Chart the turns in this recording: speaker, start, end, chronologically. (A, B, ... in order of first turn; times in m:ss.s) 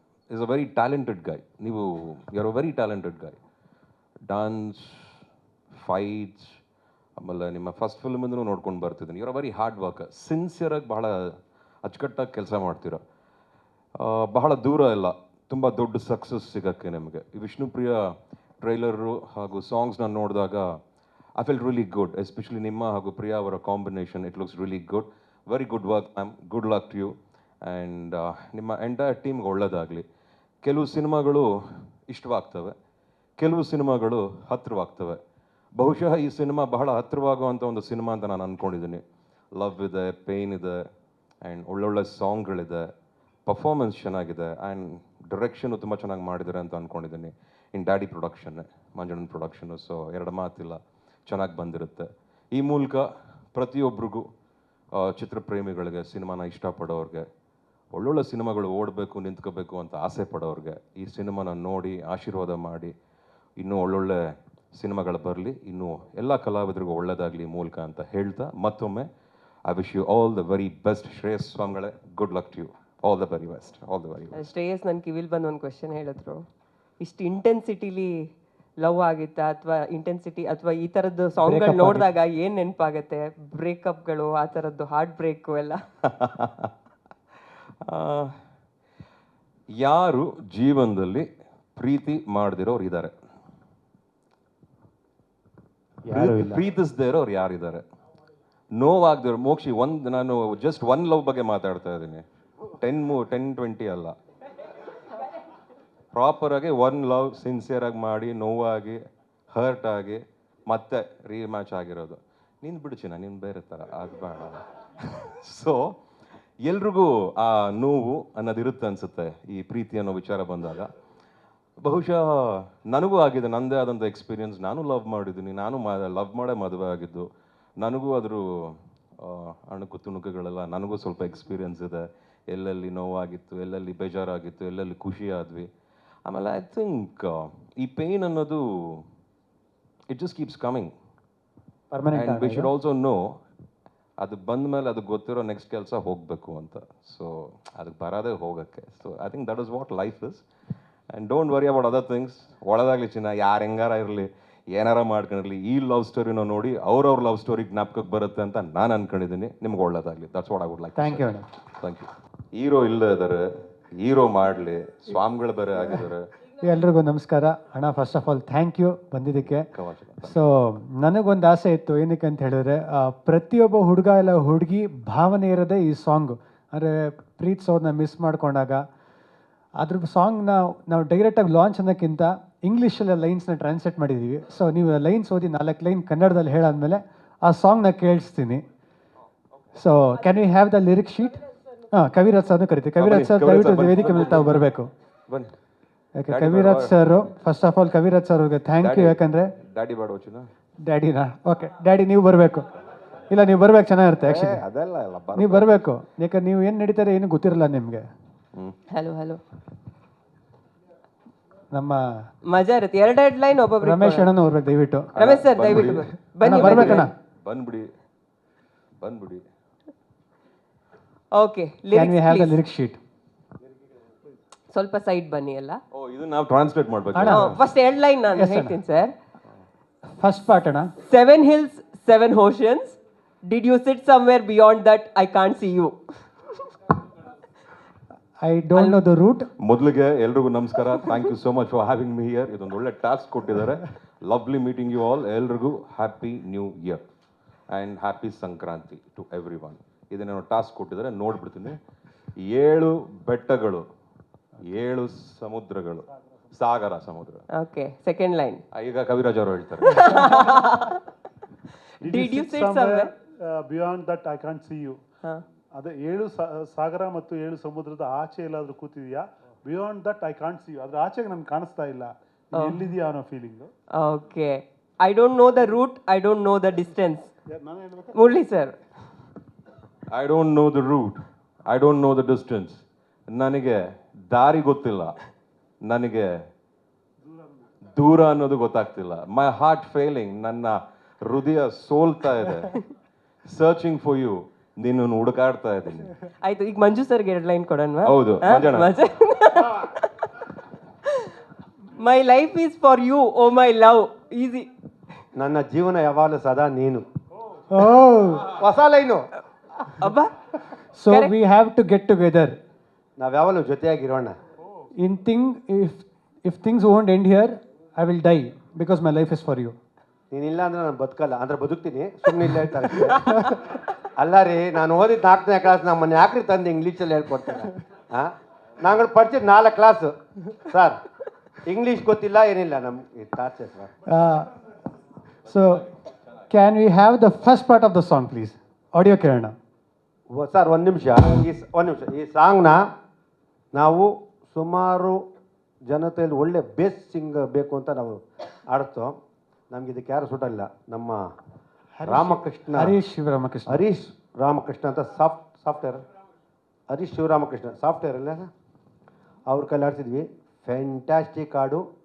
0:00.3-0:03.4 A
0:04.3-0:05.1 A
0:05.7-0:06.6 A
0:07.2-0:13.0 A
0:14.0-0:20.8 A
0:21.4-0:30.0 A
0:30.6-0:32.7 A
0:33.4-0:35.2 A
0:35.8-0:39.0 A
0:39.6-0:40.9 A
0:41.4-0:42.9 A
0:43.4-0:54.3 A
0:55.0-0:57.3 A
0:57.9-1:02.9 A
1:03.6-1:09.1 A
1:09.6-1:14.4 A
1:14.3-1:16.4 B
1:17.0-1:18.2 B
1:18.8-1:25.8 B
1:21.4-1:22.1 C
1:26.1-1:26.7 A
1:27.9-1:28.3 A
1:29.8-1:33.1 A
1:36.0-1:36.6 D
1:36.1-1:37.8 A
1:38.8-1:42.2 A
1:42.8-1:44.1 A
1:46.1-1:49.0 A
1:49.5-1:55.9 A
1:56.6-2:00.9 A
2:01.8-2:07.3 A
2:07.8-2:15.7 A
2:16.3-2:19.0 A
2:20.1-2:20.9 A
2:21.9-2:22.7 C
2:22.1-2:23.2 A
2:24.2-2:30.4 A
2:31.1-2:46.3 A
2:41.0-2:41.5 C
2:46.6-2:49.7 C
2:49.4-2:50.4 A
2:50.2-2:58.8 C
2:59.8-3:08.6 C
3:09.8-3:14.9 C
3:13.0-3:14.5 A
3:15.3-3:15.5 A
3:16.2-3:19.5 C
3:16.3-3:17.2 A
3:18.8-3:20.5 A
3:20.8-3:22.7 C
3:23.2-3:24.6 C
3:24.2-3:25.8 A
3:25.3-3:28.0 C
3:28.9-3:29.4 B
3:31.7-3:32.0 C
3:32.4-3:34.3 B
3:33.8-3:35.1 C
3:35.2-3:37.1 B
3:35.2-3:37.9 A
3:35.9-3:37.1 C
3:39.0-3:39.4 A
3:41.3-3:42.6 B
3:41.9-3:43.0 C
3:44.7-3:45.8 B
3:45.9-3:47.6 A
3:47.1-3:47.6 C
3:47.2-3:49.1 B
3:48.3-3:48.8 C
3:50.2-3:50.9 C
3:51.0-3:56.0 B
3:58.4-3:59.5 C
3:59.6-4:07.0 A
4:07.7-4:11.8 A
4:12.4-4:13.8 A
4:14.6-4:17.4 A
4:17.5-4:18.6 B
4:18.7-4:20.5 A
4:19.9-4:21.0 B
4:22.0-4:23.1 B
4:22.1-4:25.0 E
4:25.8-4:32.1 E
4:32.5-4:32.9 B
4:32.9-4:33.7 E
4:34.0-4:37.3 B
4:37.5-4:38.0 E
4:38.1-4:38.8 B
4:40.1-4:45.2 A
4:45.8-4:46.3 A
4:47.9-4:52.8 A
4:53.5-4:56.1 A
4:56.4-5:00.4 B
4:58.0-4:58.9 A
5:02.0-5:04.7 B
5:05.3-5:07.0 D
5:07.7-5:08.6 C
5:08.4-5:09.2 D
5:10.0-5:10.3 B
5:11.0-5:12.6 C
5:13.2-5:14.4 D
5:15.0-5:19.8 C
5:20.3-5:23.4 D
5:24.2-5:31.0 D
5:31.6-5:33.9 D
5:34.1-5:34.5 C
5:35.4-5:35.9 C
5:36.5-5:39.6 C
5:40.3-5:42.8 D
5:43.7-5:45.2 D
5:45.9-5:49.1 D
5:49.7-5:51.2 D
5:52.0-5:53.8 C
5:52.0-5:53.0 D
5:53.6-5:56.0 D
5:56.9-5:58.5 D
5:59.5-6:01.8 D